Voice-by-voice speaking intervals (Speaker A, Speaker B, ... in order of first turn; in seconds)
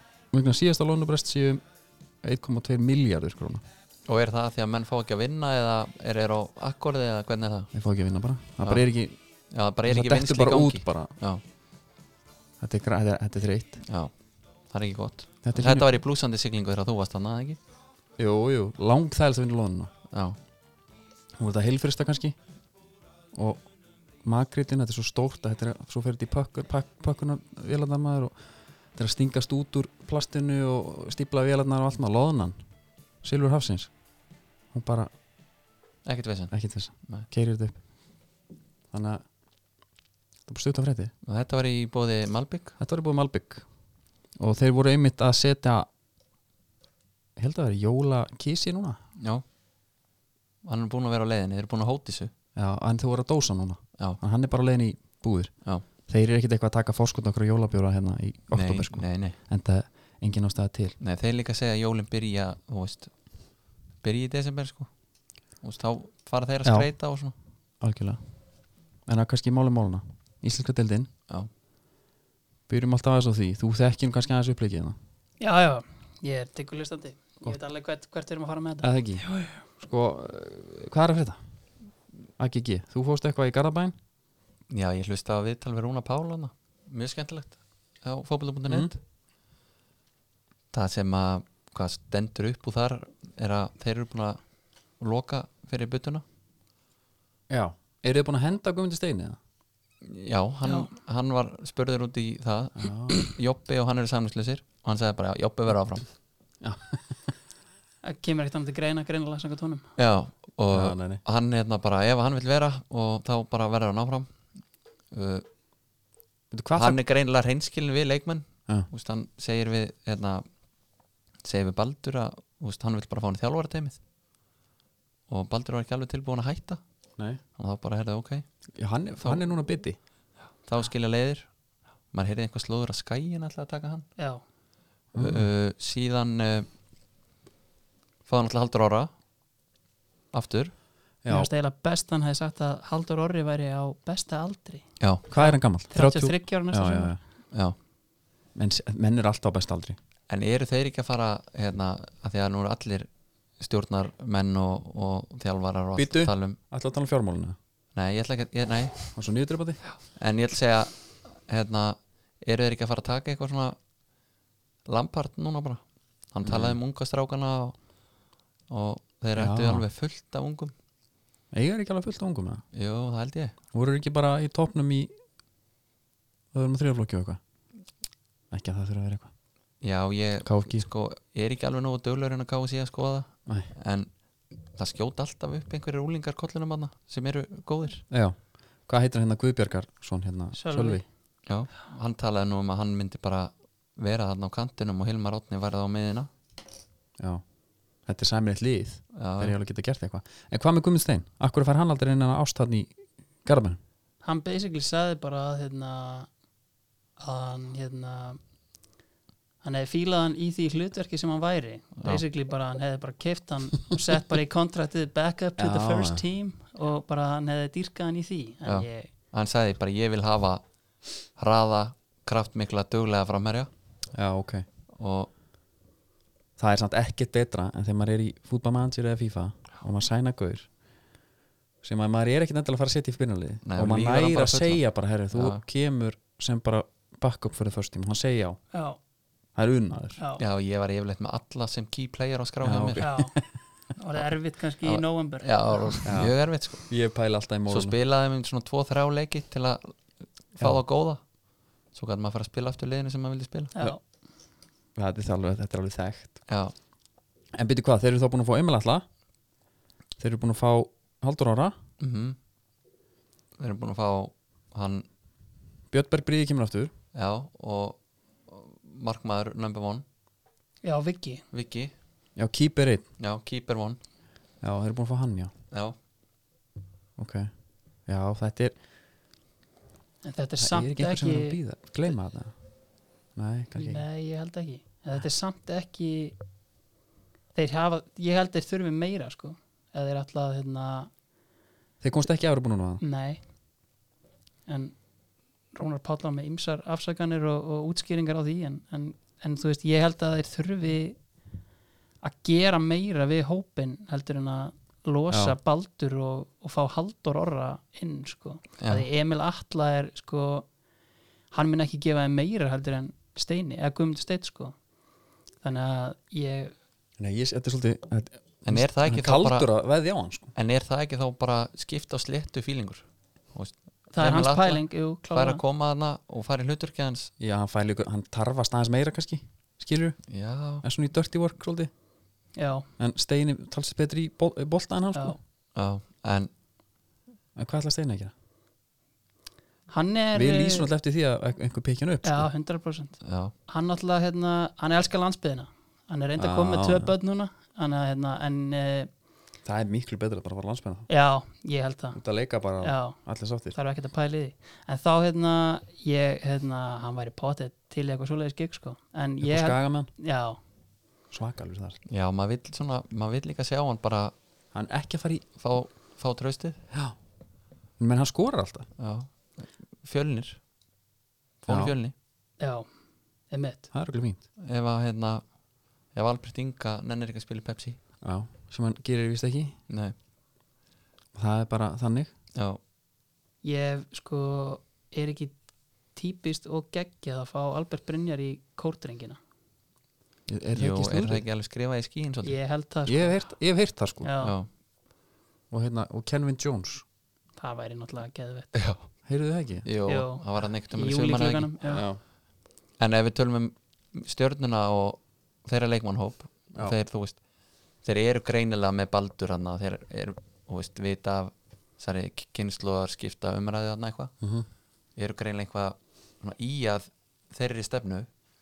Speaker A: 0.3-1.6, 2.2-3.6, 7.7-9.1, 9.8-11.1, 12.6-13.8, 15.4-15.9, 18.2-19.9, 21.4-22.4, 23.3-23.6, 24.2-28.4, 28.9-32.5, 33.2-33.9, 34.7-35.1, 36.5-37.7, 38.9-39.2, 40.5-41.1, 42.8-43.6, 44.4-45.9, 47.4-49.0, 52.5-55.5, 56.1-61.0, 67.8-68.2, 69.0-71.1, 72.7-75.0, 78.8-79.2, 79.8-81.4, 82.4-83.9, 97.5-99.4, 102.8-103.2, 106.6-107.3, 110.7-111.2, 116.5-117.0, 128.8-130.0, 135.1-135.5, 141.2-141.5, 145.3-147.2, 148.6-150.0, 155.9-157.6, 159.1-159.8, 166.4-166.8, 169.3-169.8, 171.5-172.6, 173.7-175.1, 176.5-177.4, 178.5-179.3, 180.4-180.8, 188.1-191.0, 198.1-202.9, 203.4-203.8, 215.6-216.2, 224.1-224.7, 226.6-230.7, 231.8-238.6, 239.5-240.2, 242.6-243.4, 246.0-247.9, 254.9-256.4, 257.5-259.0, 260.2-261.7, 265.9-266.9, 272.4-273.1, 274.6-275.5, 277.2-277.5, 278.1-278.8, 280.6-282.5, 283.4-284.0, 292.0-293.0, 305.3-305.6, 317.2-320.5, 327.4-330.2, 330.8-331.9, 333.0-335.4, 337.6-338.3, 340.3-342.5, 346.4-347.1, 349.6-351.1, 352.1-353.8, 359.4-360.1, 361.3-362.0, 364.7-365.4, 368.0-368.9, 371.7-371.9, 373.9-374.4, 378.2-379.8, 381.3-382.3, 390.5-391.4, 393.1-394.3, 395.7-397.0, 399.2-399.9, 401.9-402.2, 414.4-414.6
Speaker B: 4.1-7.7, 9.5-11.4, 13.9-14.1, 14.7-17.6, 20.1-20.4, 36.0-36.5, 41.2-42.7, 50.6-52.3, 58.5-59.4, 61.0-63.1, 64.0-64.9, 65.6-67.3, 84.7-89.0, 90.7-94.4, 95.0-96.2, 100.0-106.0, 110.0-114.3, 115.1-115.5, 116.7-120.4, 121.4-124.0, 125.3-126.8, 127.6-128.4, 130.6-131.5, 132.1-134.1, 135.2-136.7, 138.2-139.1, 140.3-140.7, 145.0-145.2, 150.3-153.1, 153.6-156.6, 157.9-159.1, 159.9-163.8, 164.9-165.8, 166.3-167.8, 168.7-170.7, 172.7-173.5, 179.8-184.1, 184.7-188.0, 191.5-196.3, 199.1-199.5, 212.0-212.2, 218.7-220.6, 221.3-223.7, 224.9-225.3, 233.7-234.8, 235.3-235.6, 240.4-243.0, 244.8-246.9, 247.7-249.9, 250.5-251.2, 251.9-253.7, 256.5-256.7, 262.0-262.4, 263.6-265.0, 267.1-268.0, 268.5-270.0, 271.5-271.9, 273.2-274.0, 308.8-309.1, 318.6-319.7, 320.6-327.3, 330.3-330.8, 335.7-336.5, 343.2-343.5, 362.1-364.3, 365.6-366.8, 369.0-370.6, 371.6-372.1, 374.6-375.4, 376.1-378.0, 379.9-380.1, 382.5-382.8, 390.8-392.6, 394.4-394.7, 398.7-399.1, 399.8-401.8, 403.0-407.4, 408.0-414.3, 415.1-418.3
Speaker C: 75.4-79.5, 108.0-109.8, 134.2-134.4, 141.3-147.1, 190.5-191.0, 204.2-206.3, 207.2-208.4, 209.6-219.1, 238.7-239.0, 240.2-240.4, 243.0-243.3, 244.0-246.0, 253.7-254.0, 270.8-271.4, 280.2-281.6, 283.7-286.4, 287.5-291.1, 293.0-293.4, 294.7-294.9, 295.7-301.2, 302.2-310.7, 311.5-314.8, 315.6-316.7, 324.1-325.6, 332.6-332.9, 339.9-340.9, 342.2-349.1, 351.1-352.2, 352.8-353.2, 353.7-360.6, 372.6-372.9, 373.5-373.9, 383.6-385.6, 386.1-389.4, 392.4-393.4, 394.2-394.6, 397.6-398.7, 400.1-402.1